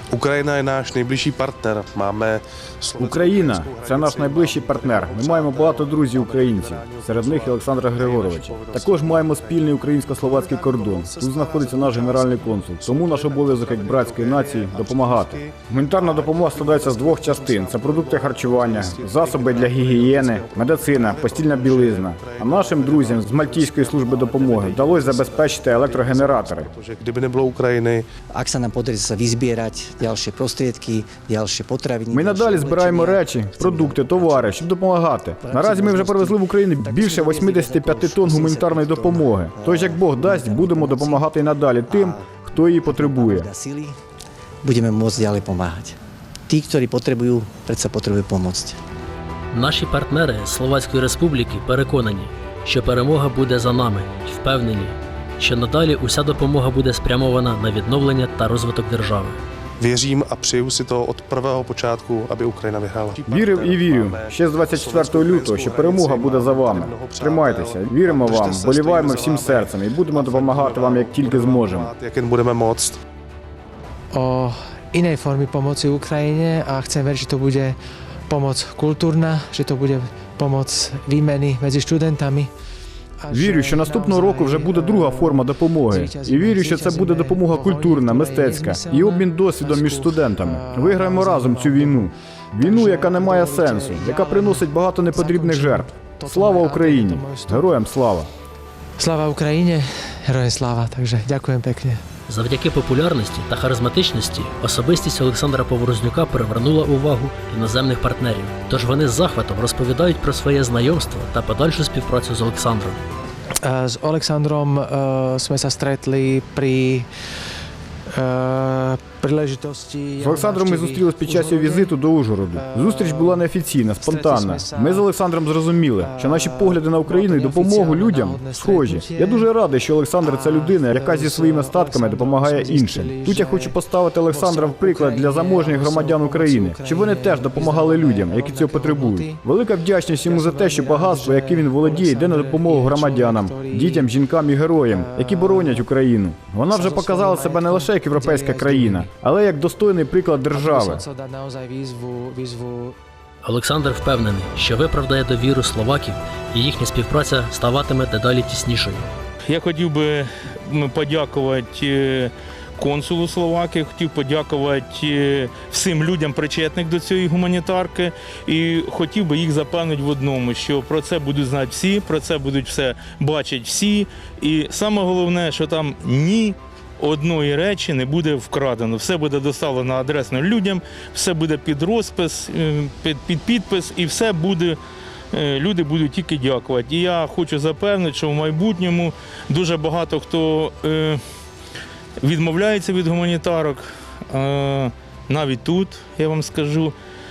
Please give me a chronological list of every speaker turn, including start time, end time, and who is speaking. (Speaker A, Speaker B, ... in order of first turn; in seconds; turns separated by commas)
Speaker A: 0.1-28.0, Speaker B: 3.0-26.7, Speaker C: 28.3-34.6, Speaker B: 32.1-43.5, Speaker C: 35.4-41.3, Speaker C: 41.9-42.2, Speaker C: 42.8-44.0, Speaker C: 44.6-46.0, Speaker C: 46.5-48.8, Speaker D: 49.5-59.4, Speaker A: 59.8-73.0, Speaker B: 63.3-71.9, Speaker E: 74.1-82.5, Speaker E: 83.2-97.7, Speaker B: 83.3-98.3, Speaker E: 99.0-102.0, Speaker D: 102.3-113.0, Speaker E: 113.6-117.1, Speaker E: 118.1-122.0, Speaker B: 120.2-151.0, Speaker E: 122.5-125.1, Speaker E: 126.0-129.5, Speaker E: 130.2-139.4, Speaker E: 140.1-144.1, Speaker E: 144.8-145.8, Speaker E: 146.7-149.1, Speaker E: 150.5-152.9, Speaker D: 153.4-159.1, Speaker F: 159.5-184.8, Speaker F: 185.3-191.2, Speaker F: 192.2-196.9